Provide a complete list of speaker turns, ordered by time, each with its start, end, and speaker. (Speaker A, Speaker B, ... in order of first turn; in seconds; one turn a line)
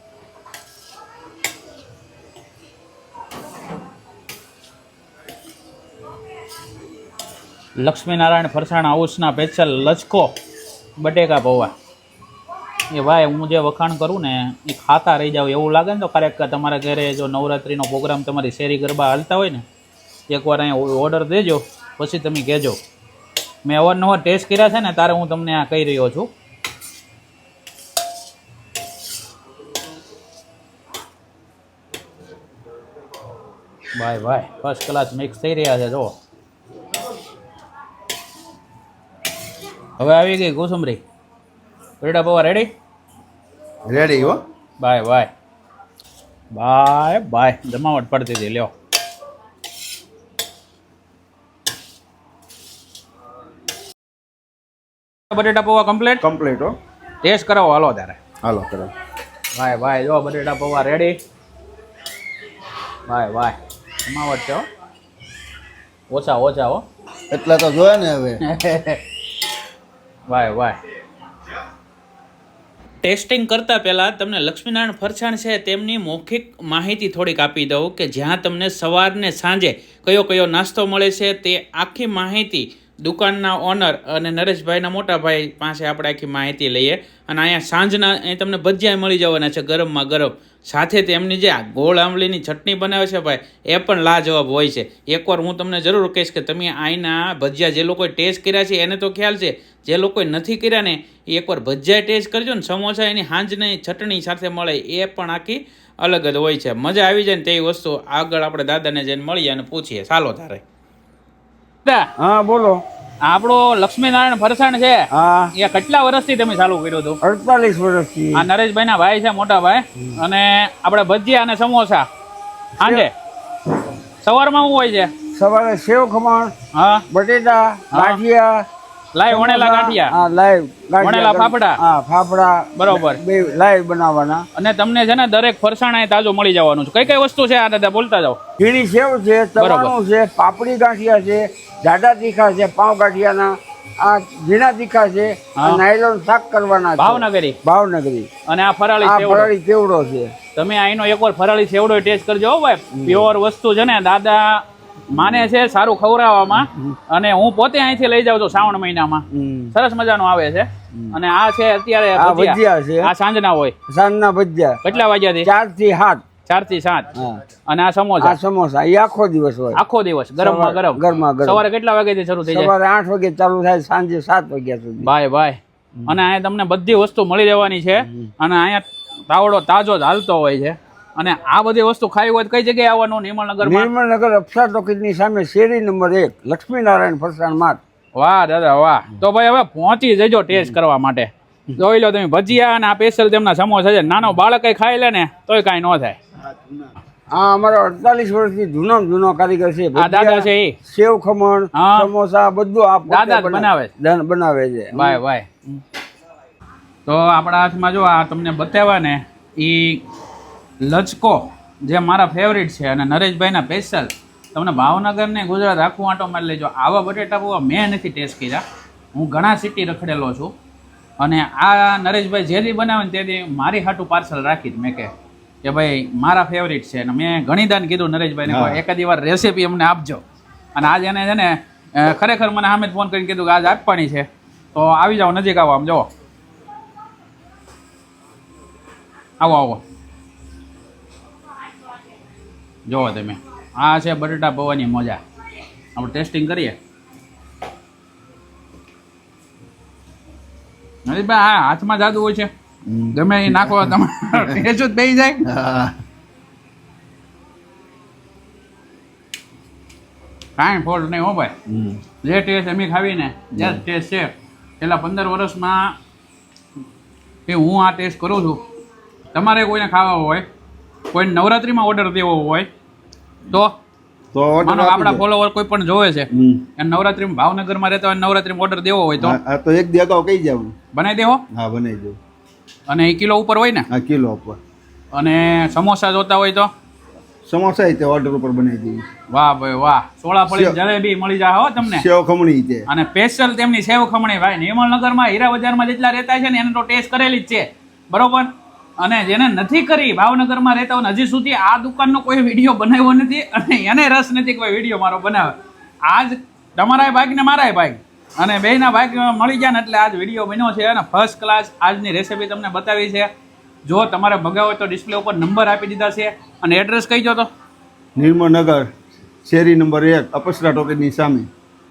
Speaker A: 7.8-10.3
Speaker A: 11.0-11.7
Speaker A: 12.9-19.6
Speaker A: 20.3-22.8
Speaker A: 23.6-26.3
Speaker A: 33.9-36.1
Speaker A: 40.0-41.0
Speaker A: 42.0-42.7
Speaker B: 43.9-44.4
Speaker A: 44.8-45.3
Speaker A: 46.5-48.7
Speaker A: 55.3-56.2
Speaker B: 56.2-56.7
Speaker A: 57.2-58.2
Speaker B: 58.4-58.9
Speaker A: 59.5-61.2
Speaker A: 63.1-64.7
Speaker A: 66.1-66.8
Speaker B: 67.3-68.4
Speaker A: 68.4-69.0
Speaker A: 70.3-70.8
Speaker A: 73.0-110.6
Speaker C: 112.2-112.8
Speaker A: 113.2-117.2
Speaker C: 115.1-115.5
Speaker C: 117.2-118.4
Speaker A: 118.3-122.1
Speaker A: 122.8-123.1
Speaker A: 124.2-125.1
Speaker C: 125.3-126.5
Speaker A: 126.7-127.0
Speaker C: 127.1-128.7
Speaker A: 127.9-128.2
Speaker A: 129.1-130.1
Speaker C: 129.3-134.4
Speaker A: 131.0-131.8
Speaker A: 132.8-133.2
Speaker A: 134.6-138.4
Speaker C: 138.6-148.3
Speaker A: 139.6-139.9
Speaker A: 145.6-145.8
Speaker A: 147.0-147.6
Speaker A: 148.5-149.5
Speaker C: 149.0-150.3
Speaker A: 150.5-163.7
Speaker B: 155.1-155.4
Speaker B: 159.4-159.7
Speaker C: 162.2-163.1
Speaker C: 163.9-164.8
Speaker A: 164.8-165.5
Speaker C: 165.4-166.2
Speaker A: 166.5-167.1
Speaker C: 167.1-167.4
Speaker A: 167.7-168.4
Speaker C: 168.2-169.8
Speaker A: 169.7-172.7
Speaker C: 170.4-171.6
Speaker C: 172.5-175.1
Speaker A: 175.0-183.9
Speaker C: 183.6-187.8
Speaker A: 188.1-196.2
Speaker B: 196.4-196.9
Speaker C: 197.4-205.2
Speaker A: 199.9-200.8
Speaker A: 201.7-202.1
Speaker A: 203.1-203.9
Speaker A: 204.9-205.5
Speaker A: 207.1-210.0
Speaker A: 210.8-218.6
Speaker A: 219.1-220.5
Speaker A: 221.2-225.1
Speaker A: 225.6-230.2
Speaker B: 228.4-228.8
Speaker A: 230.7-236.1
Speaker A: 239.4-239.8
Speaker A: 242.9-245.2
Speaker A: 245.9-246.8
Speaker A: 251.1-252.5
Speaker B: 252.8-254.6
Speaker A: 253.1-255.5
Speaker B: 255.4-255.9
Speaker A: 260.6-261.5
Speaker B: 261.7-262.0
Speaker A: 262.2-265.9
Speaker B: 263.5-263.8
Speaker A: 267.5-268.6
Speaker A: 269.3-270.4
Speaker A: 271.1-272.7
Speaker B: 274.3-275.2
Speaker A: 274.6-279.4
Speaker B: 276.3-276.6
Speaker B: 279.2-280.7
Speaker A: 280.9-281.4
Speaker B: 281.5-282.2
Speaker A: 282.9-283.9
Speaker B: 283.9-284.6
Speaker A: 285.1-286.7
Speaker B: 287.4-289.0
Speaker A: 289.3-292.0
Speaker B: 290.5-290.8
Speaker B: 291.8-292.9
Speaker A: 292.9-313.3
Speaker A: 313.9-317.5
Speaker B: 318.2-318.9
Speaker B: 319.4-321.5